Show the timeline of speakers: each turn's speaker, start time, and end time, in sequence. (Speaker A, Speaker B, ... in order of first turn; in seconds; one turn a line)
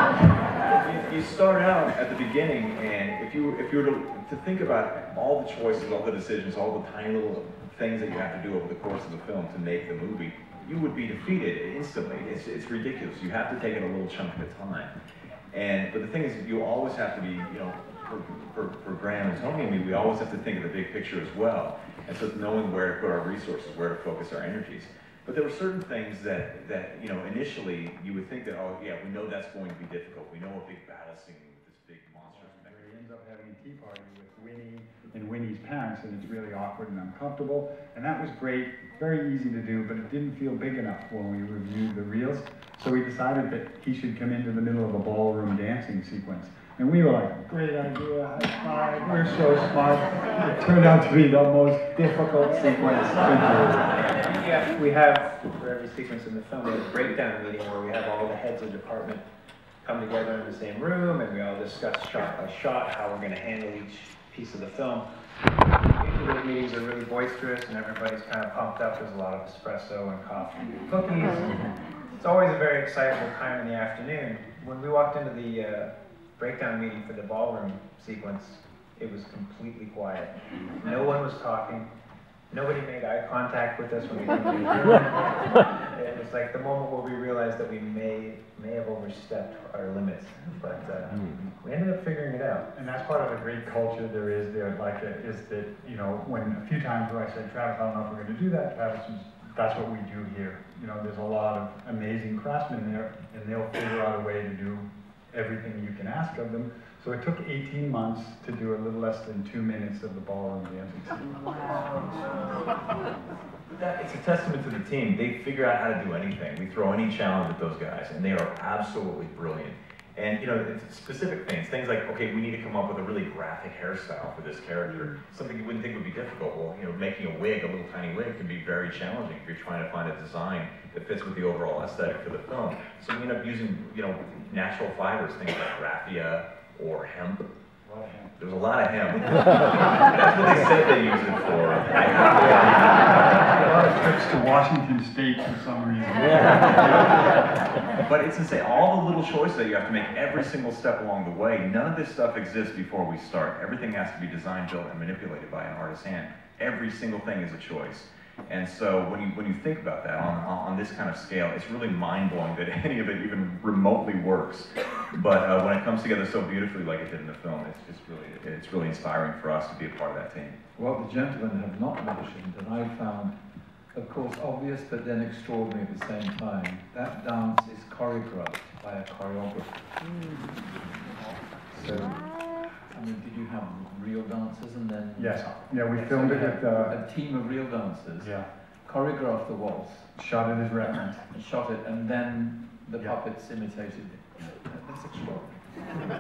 Speaker A: 0.6-14.9
Speaker A: 15.5-33.0
Speaker B: 32.3-53.9
Speaker C: 54.3-59.2
Speaker C: 59.8-65.1
Speaker C: 66.0-71.7
Speaker C: 72.2-81.9
Speaker C: 82.5-92.7
Speaker B: 92.7-112.4
Speaker A: 113.8-137.5
Speaker B: 137.9-138.3
Speaker A: 138.4-143.4
Speaker B: 143.5-147.4
Speaker A: 148.0-170.6
Speaker D: 170.8-173.4
Speaker D: 173.9-179.9
Speaker D: 181.7-182.3
Speaker B: 181.8-182.1
Speaker D: 182.9-190.1
Speaker B: 185.2-187.0
Speaker B: 188.2-188.5
Speaker B: 190.2-191.2
Speaker D: 191.3-195.3